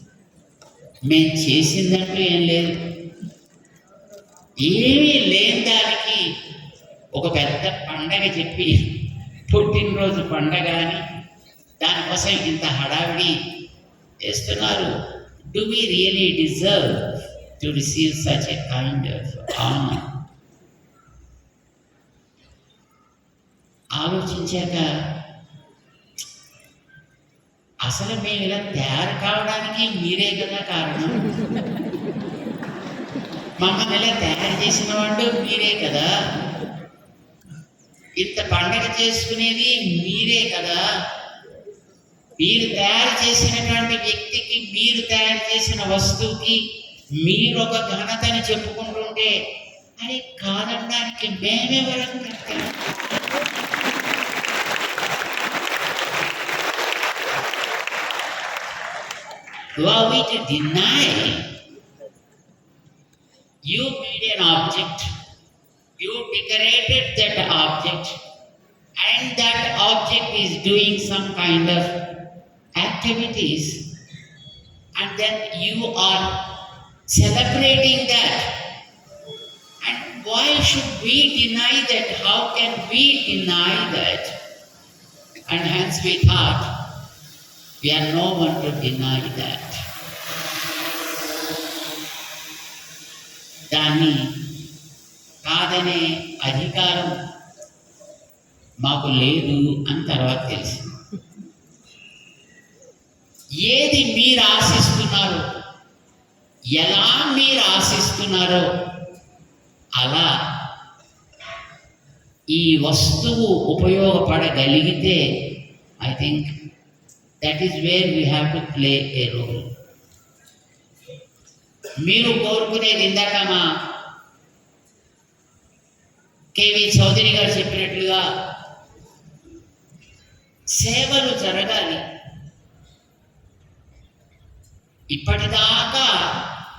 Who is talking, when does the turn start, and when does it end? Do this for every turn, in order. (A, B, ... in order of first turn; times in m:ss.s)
0:01.1-0:02.7 A
0:04.6-0:06.2 A
0:07.1-0:08.8 A
0:09.5-0:11.0 A
0:11.8-0:13.3 A
0:14.2-0:14.9 A
0:15.5-0:20.0 A
0:24.0-0:24.9 A
0:27.8-0:31.2 A
0:33.6-0:36.1 A
0:38.2-0:40.8 A
0:42.4-0:46.6 A
0:47.2-0:49.3 A
0:50.0-0:52.7 A
0:59.8-1:01.4 A
1:03.7-1:05.1 A
1:06.0-1:08.2 A
1:09.0-1:11.9 A
1:12.8-1:13.8 A
1:15.0-1:16.3 A
1:17.1-1:18.5 A
1:19.8-1:24.3 A
1:25.5-1:26.7 A
1:27.8-1:29.8 A
1:33.7-1:34.2 A
1:35.4-1:37.1 A
1:38.8-1:40.8 A
1:43.6-1:45.4 A
1:46.8-1:48.6 A
1:50.0-1:50.3 A
1:52.5-1:55.2 A
1:56.0-1:56.5 A
1:57.4-1:59.7 A
2:02.0-2:03.6 A
2:06.5-2:08.2 A
2:10.8-2:12.0 A
2:15.1-2:16.2 A